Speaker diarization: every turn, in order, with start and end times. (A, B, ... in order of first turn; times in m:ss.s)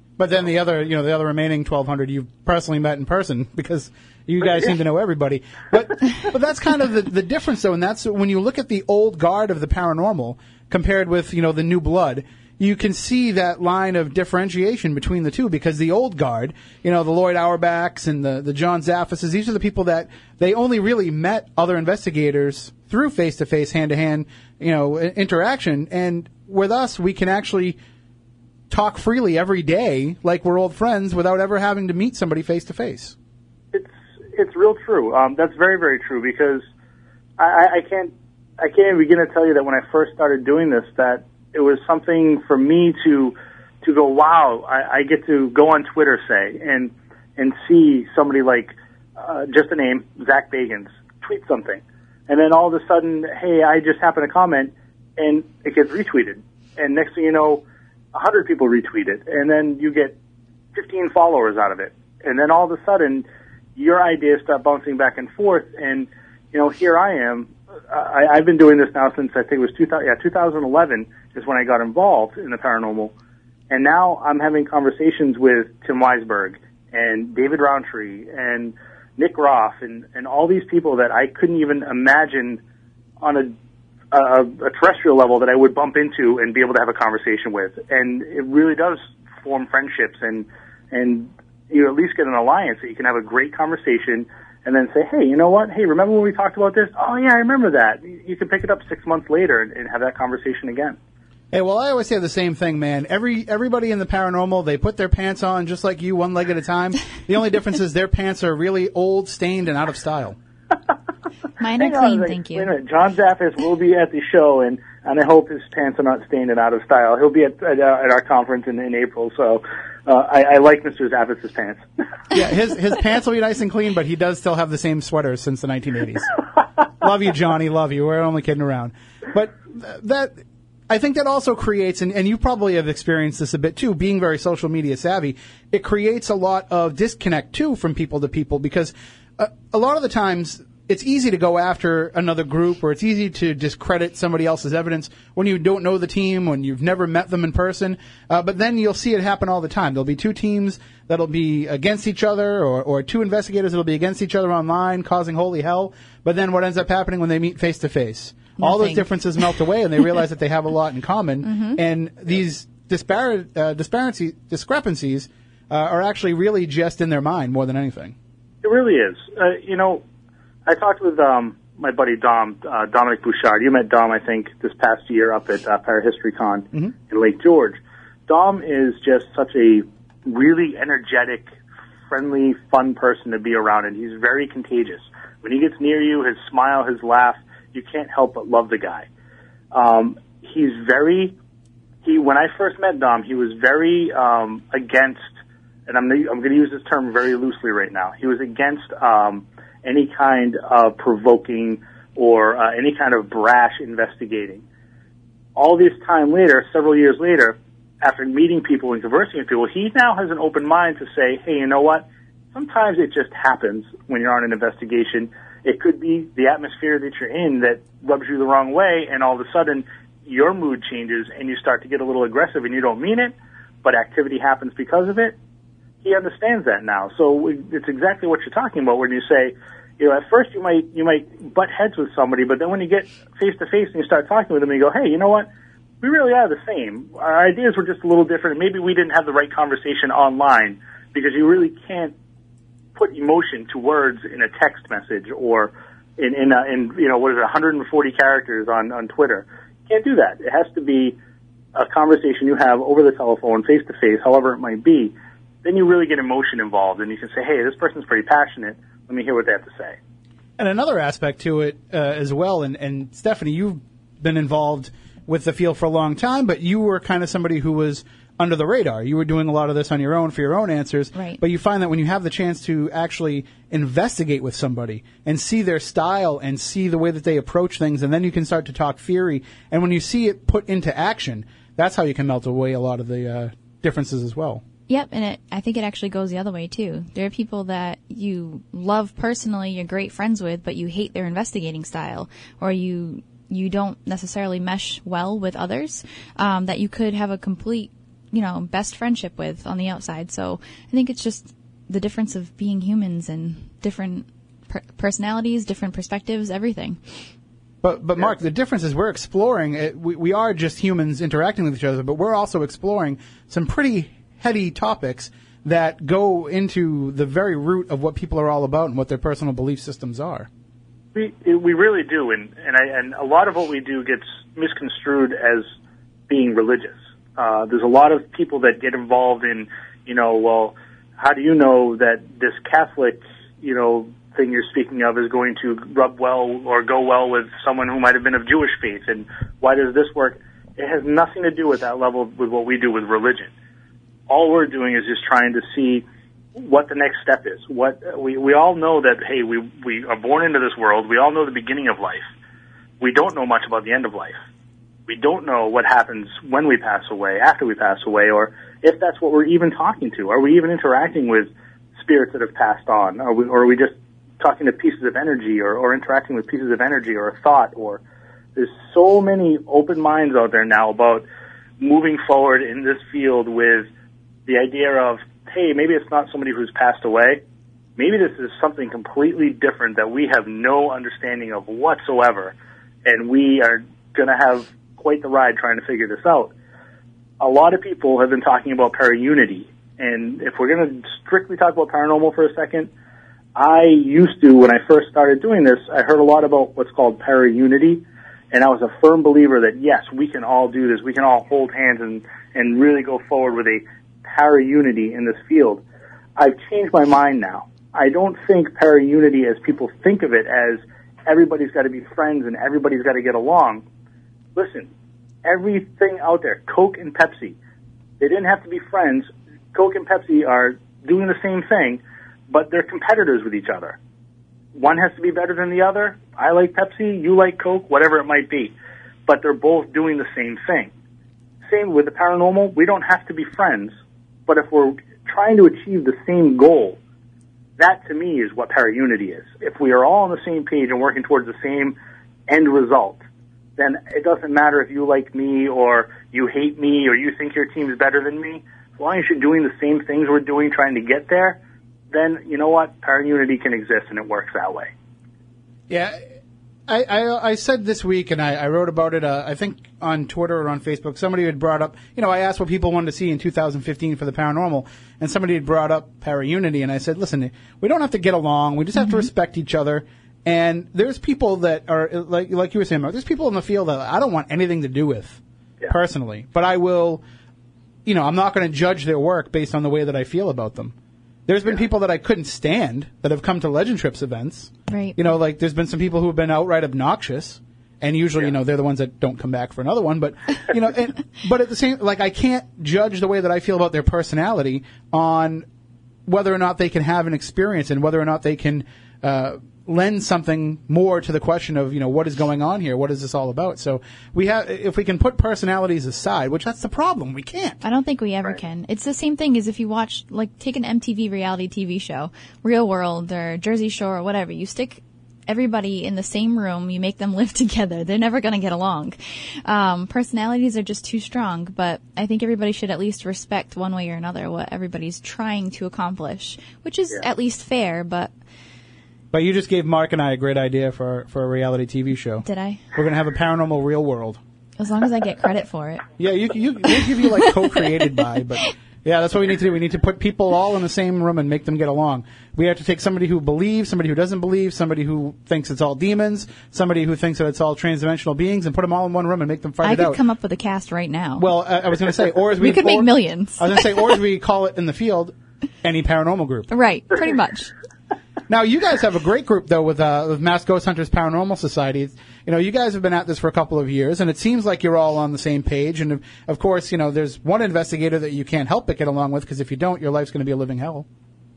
0:00.2-0:27.8 A
0:28.7-0:33.2 A
0:33.7-0:36.6 B
0:37.4-1:00.2 B
1:00.7-1:03.3 B
1:03.8-1:13.1 B
1:13.7-1:22.6 B
1:23.2-1:23.5 B
1:24.1-1:41.0 B
1:41.5-1:50.4 A
1:51.6-1:52.7 C
1:51.8-2:01.8 B
2:02.3-2:06.3 A
2:07.0-2:10.4 A
2:10.9-2:48.2 A
2:38.6-2:39.1 C
2:41.4-2:41.8 C
2:48.6-2:50.0 B
2:50.7-3:01.5 B
3:02.1-3:09.1 B
3:09.7-3:11.4 B
3:12.0-3:15.3 B
3:15.9-3:24.6 B
3:25.6-3:45.4 B
3:46.0-3:55.5 B
3:56.0-4:02.1 B
4:03.0-4:11.2 B
4:11.8-4:20.0 B
4:20.6-4:44.6 A
4:31.2-4:31.4 C
4:44.9-5:07.0 C
5:07.8-5:20.5 A
5:21.2-5:25.6 B
5:26.3-5:43.5 B
5:44.3-5:52.3 B
5:53.0-5:54.4 B
5:55.1-6:08.0 B
6:08.6-6:11.3 B
6:11.8-6:13.9 B
6:14.5-6:17.4 B
6:18.0-6:26.5 B
6:27.4-6:32.9 B
6:33.6-6:45.8 B
6:46.4-6:53.8 B
6:54.6-6:54.9 B
6:55.4-6:57.6 B
6:58.2-7:04.0 B
7:04.8-7:08.7 B
7:09.3-7:10.9 B
7:11.7-7:13.9 B
7:14.5-7:17.0 B
7:17.8-7:23.2 B
7:23.8-7:31.6 B
7:32.1-7:34.9 B
7:35.9-7:36.2 A
7:36.9-7:57.2 A
7:58.1-8:00.9 A
8:01.5-8:15.6 A
8:04.9-8:05.2 C
8:16.3-8:27.8 A
8:27.8-8:48.3 C
8:49.3-8:54.4 A
8:52.4-8:52.8 C
8:54.8-8:56.1 C
8:56.2-9:10.2 A
9:09.8-9:11.5 C
9:11.4-9:16.7 A
9:12.6-9:14.0 C
9:16.7-9:17.7 C
9:18.5-9:31.1 A